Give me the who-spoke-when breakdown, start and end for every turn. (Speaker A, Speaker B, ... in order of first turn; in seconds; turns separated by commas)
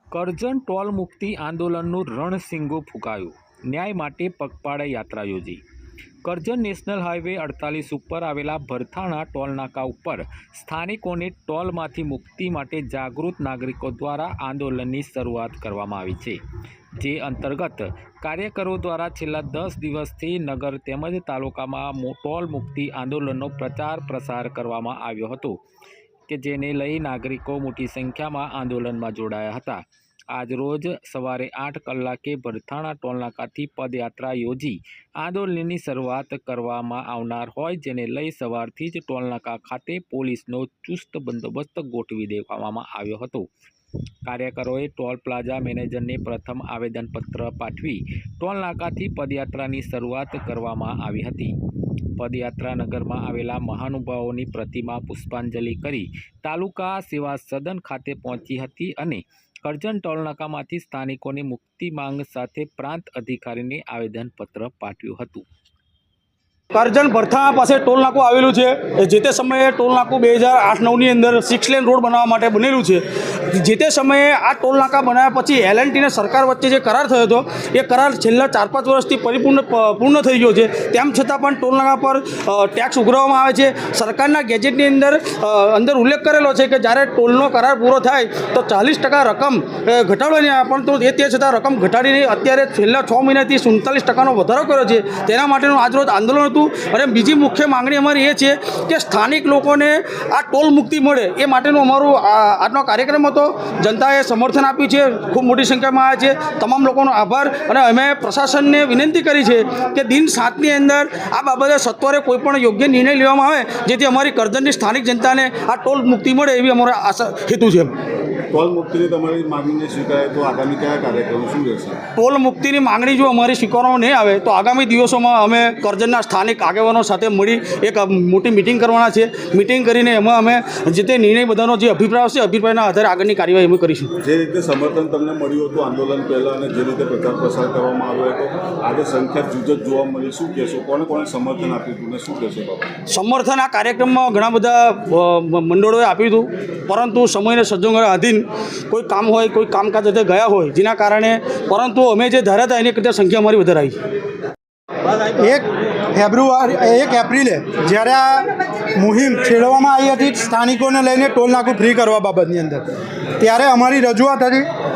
Speaker A: 0.1-5.6, Speaker A: 6.2-16.4, Speaker A: 16.9-25.6, Speaker A: 26.3-43.5, Speaker A: 44.2-51.6, Speaker A: 52.2-65.5, Speaker B: 66.7-117.9, Speaker C: 118.5-122.0, Speaker B: 122.2-134.1, Speaker C: 134.2-142.9, Speaker B: 143.1-154.0, Speaker D: 155.2-162.8, Speaker D: 163.4-164.7